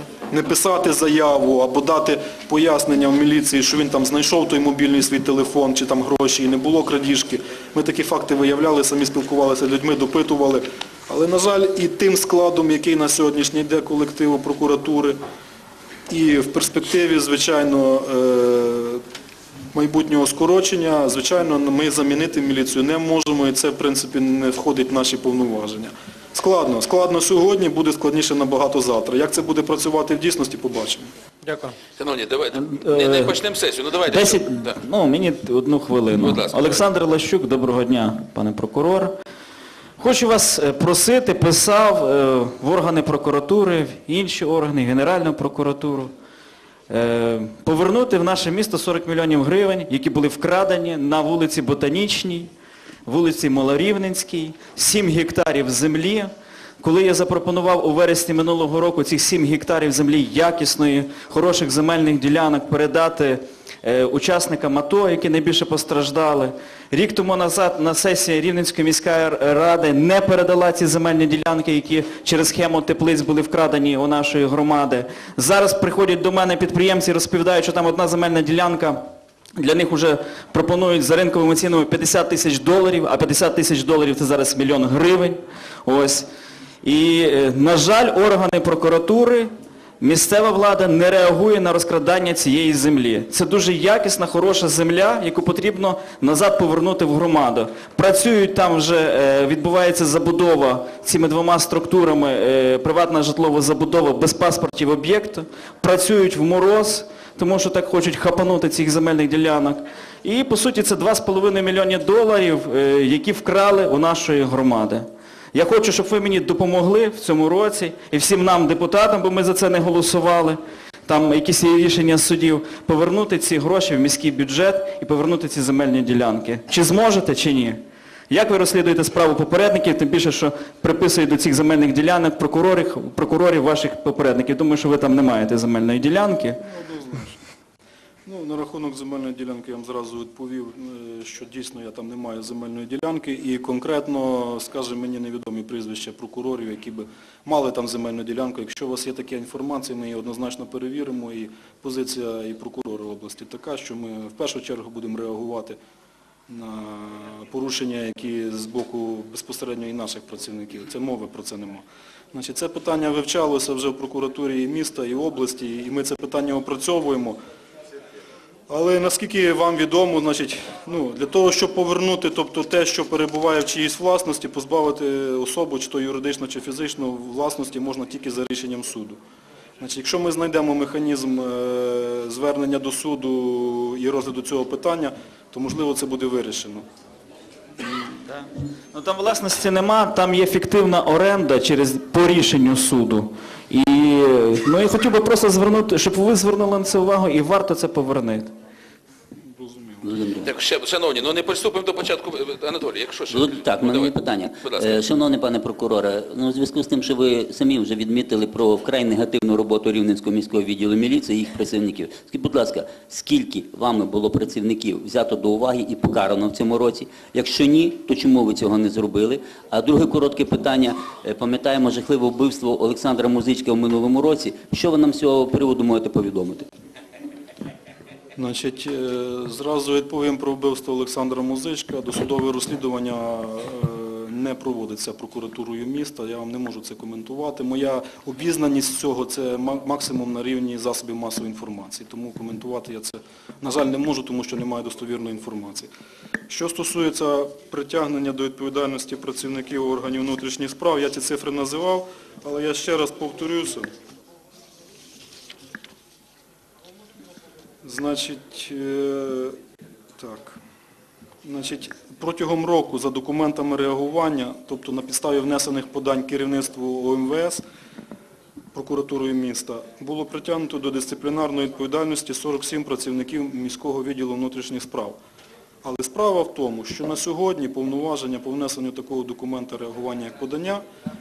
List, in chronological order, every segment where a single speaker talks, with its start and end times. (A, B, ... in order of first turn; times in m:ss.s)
0:00.3-0:15.2 A
0:16.1-0:19.0 A
0:19.7-0:31.1 A
0:32.0-0:34.5 B
0:32.6-0:33.4 C
0:34.0-0:39.1 C
0:36.2-0:36.6 B
0:40.0-0:46.1 C
0:46.9-0:52.5 C
0:53.1-1:26.3 C
1:26.8-2:16.6 C
2:16.7-2:17.4 A
2:18.3-2:35.8 A
2:36.5-2:47.4 A
2:48.7-2:59.2 A
2:59.8-3:06.8 A
3:08.2-3:18.5 C
3:19.5-3:20.2 A
3:20.0-3:20.5 D
3:20.5-3:25.0 B
3:23.3-3:46.7 D
3:48.4-4:05.9 A
4:06.5-4:13.9 A
4:17.8-4:19.6 A
4:20.2-4:20.6 A
4:21.4-4:27.6 A
4:28.7-4:35.2 A
4:35.8-4:40.8 A